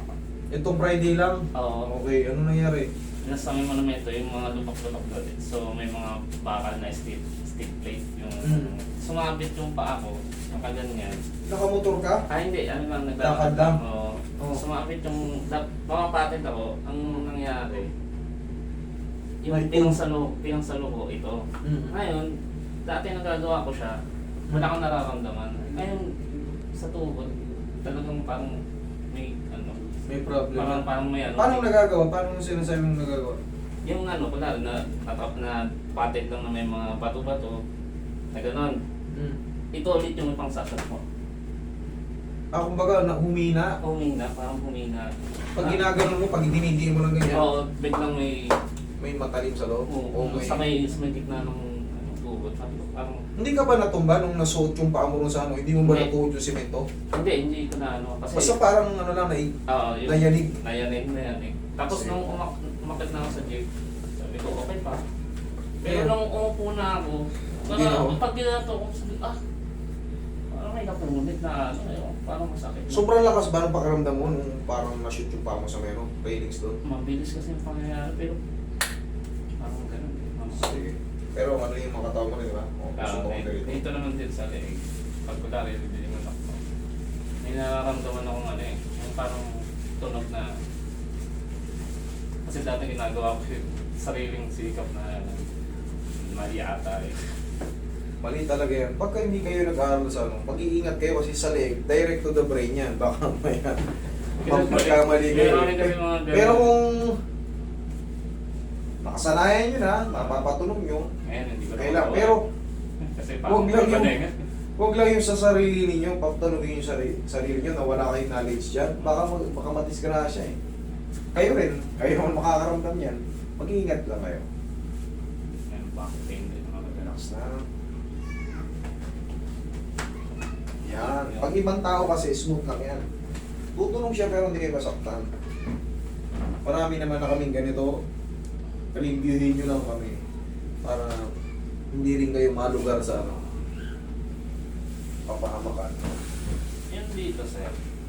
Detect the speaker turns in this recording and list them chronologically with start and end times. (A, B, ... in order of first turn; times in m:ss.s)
0:00.5-0:02.9 A
0:01.5-0:01.9 B
0:03.2-0:11.2 B
0:08.4-0:08.7 A
0:11.5-0:12.2 A
0:12.3-0:17.9 B
0:13.2-0:13.8 A
0:19.4-0:24.0 B
0:19.5-0:20.0 A
0:21.6-0:21.9 A
0:24.5-0:26.2 B
0:26.7-0:29.9 B
0:30.1-0:30.8 A
0:30.5-0:31.7 B
0:31.4-0:33.4 A
0:33.8-0:37.6 B
0:38.3-0:38.8 B
0:39.1-0:39.4 A
0:39.7-0:41.0 B
0:42.5-0:43.8 A
0:43.8-0:45.8 B
0:45.5-0:47.5 A
0:47.3-0:48.6 B
0:49.0-0:50.7 A
0:49.9-0:53.2 B
0:53.4-0:56.9 A
0:55.8-0:56.1 B
0:57.1-0:58.5 B
0:58.3-1:00.5 A
0:59.7-1:03.6 B
1:01.9-1:02.2 A
1:04.2-1:05.0 B
1:05.8-1:09.4 B
1:05.8-1:06.2 A
1:07.7-1:08.2 A
1:10.5-1:13.0 B
1:12.9-1:16.8 A
1:16.8-1:18.4 B
1:19.6-1:20.8 B
1:20.5-1:23.8 A
1:23.0-1:26.6 B
1:27.4-1:30.6 B
1:32.4-1:35.4 B
1:36.2-1:37.2 B
1:38.2-1:47.2 A
1:44.4-1:46.8 B
1:49.0-1:51.1 A
1:50.1-1:50.5 B
1:51.2-1:52.4 B
1:51.8-1:52.4 A
1:53.0-1:54.4 B
1:53.4-1:54.2 A
1:54.8-2:00.6 A
1:59.0-1:59.2 B
2:01.3-2:04.4 A
2:05.7-2:07.1 B
2:07.0-2:07.6 A
2:10.8-2:13.0 A
2:11.0-2:11.5 B
2:13.7-2:15.3 A
2:16.6-2:18.0 A
2:18.9-2:20.2 A
2:20.8-2:21.3 A
2:21.9-2:23.4 A
2:25.3-2:26.0 A
2:26.9-2:27.7 B